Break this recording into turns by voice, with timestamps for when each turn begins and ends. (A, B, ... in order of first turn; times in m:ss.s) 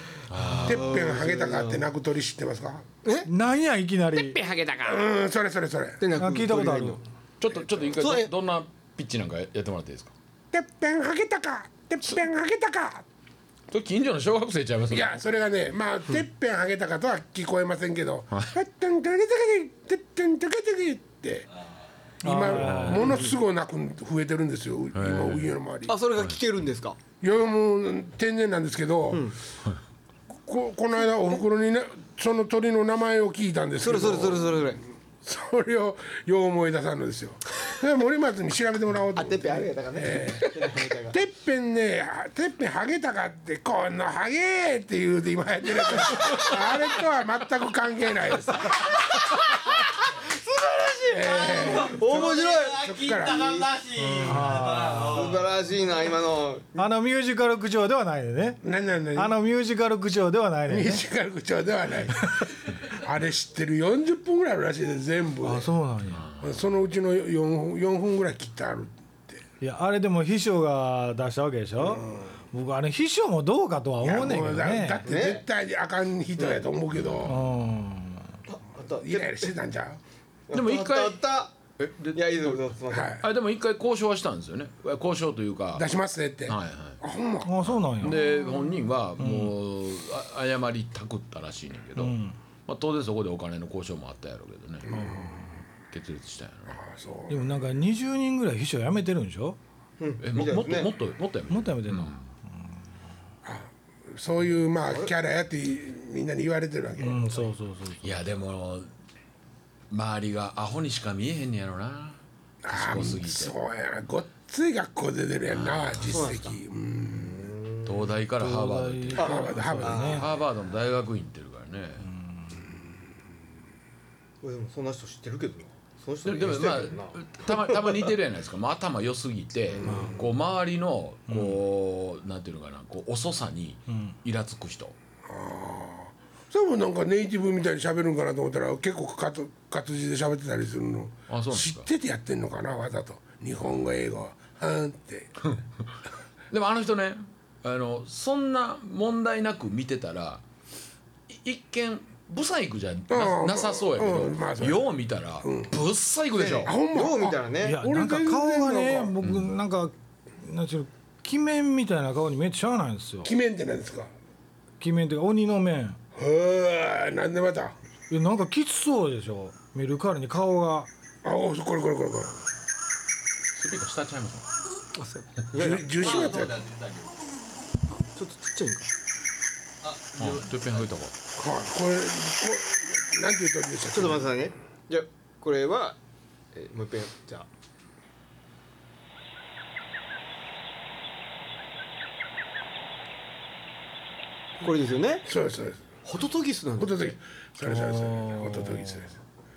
0:00.3-0:01.1 A
0:00.4-0:01.8 B
0:00.6-0:02.8 C
0:03.0-0:03.3 B
0:03.2-0:04.4 D
0:04.1-0:05.0 B
0:04.8-0:06.0 C
0:06.0-0:07.0 B
0:06.2-0:07.0 D
0:07.4-0:10.1 A
0:08.0-0:08.3 B
0:10.5-0:13.0 C
0:13.7-0:15.1 A
0:14.9-0:21.4 C
0:22.2-0:23.2 D
0:22.2-0:26.0 C
0:22.6-0:23.1 A
0:24.9-0:25.5 A
0:25.9-0:27.0 B
0:27.2-0:29.3 C
0:30.4-0:49.0 C
0:33.8-0:34.8 B
0:39.2-0:41.2 B
0:46.2-0:46.5 B
0:48.9-0:53.4 B
0:51.1-0:53.6 C
0:51.4-0:55.5 E
0:54.0-0:55.3 D
0:55.1-0:56.8 B
0:56.8-0:58.6 D
0:58.6-0:59.3 C
0:59.1-1:01.0 D
1:00.7-1:05.7 C
1:05.4-1:06.2 D
1:06.1-1:06.5 A
1:06.4-1:09.4 C
1:09.6-1:15.0 D
1:11.8-1:12.2 C
1:14.0-1:17.4 C
1:15.0-1:15.4 B
1:17.2-1:18.3 D
1:18.4-1:19.5 B
1:19.0-1:20.0 C
1:20.5-1:21.5 B
1:20.5-1:21.2 A
1:21.8-1:22.6 A
1:22.1-1:23.1 B
1:22.9-1:23.2 C
1:23.2-1:25.8 A
1:25.7-1:27.6 C
1:26.5-1:27.0 A
1:27.4-1:28.2 D
1:27.6-1:32.1 A
1:29.2-1:29.5 D
1:32.0-1:32.4 D
1:32.7-1:34.9 A
1:34.8-1:35.4 C
1:34.9-1:35.5 D
1:35.8-1:36.8 A
1:36.7-1:37.7 C
1:37.3-1:39.6 D
1:40.0-1:40.9 B
1:40.2-1:42.2 A
1:41.5-1:42.2 D
1:43.4-1:47.3 C
1:44.8-1:45.1 B
1:47.0-1:48.1 D
1:48.0-1:48.9 A
1:49.9-1:52.2 A
1:52.6-1:57.5 C
1:52.7-1:53.5 A
1:55.5-1:56.2 A
1:56.1-1:56.6 B
1:57.1-1:58.1 B
1:57.8-2:02.1 A
1:58.4-2:00.3 D
1:59.2-2:00.2 B
1:59.2-2:00.2 C
2:02.0-2:02.6 D
2:04.4-2:08.1 B
2:06.2-2:14.9 A
2:09.7-2:10.1 C
2:11.3-2:11.6 D
2:15.2-2:25.3 C
2:21.3-2:21.8 A
2:26.5-2:30.4 A
2:31.3-2:36.7 A
2:33.1-2:34.9 C
2:35.4-2:35.8 C
2:36.4-2:39.1 C
2:36.9-2:37.8 B
2:37.6-2:43.3 D
2:39.2-2:39.5 A
2:43.2-2:44.1 C
2:44.8-2:46.0 D
2:46.1-2:47.7 C
2:48.1-2:50.9 D
2:51.2-2:52.4 C
2:53.6-2:54.4 A
2:55.0-2:56.4 B
2:55.5-2:56.6 C
2:55.9-2:57.2 E
2:58.0-2:58.9 B
2:59.8-3:00.9 E
3:00.2-3:01.1 A
3:01.4-3:04.3 C
3:03.9-3:06.0 B
3:06.5-3:07.4 B
3:14.6-3:15.3 B
3:15.2-3:15.8 C
3:16.0-3:17.1 B
3:16.8-3:19.2 C
3:17.7-3:18.8 D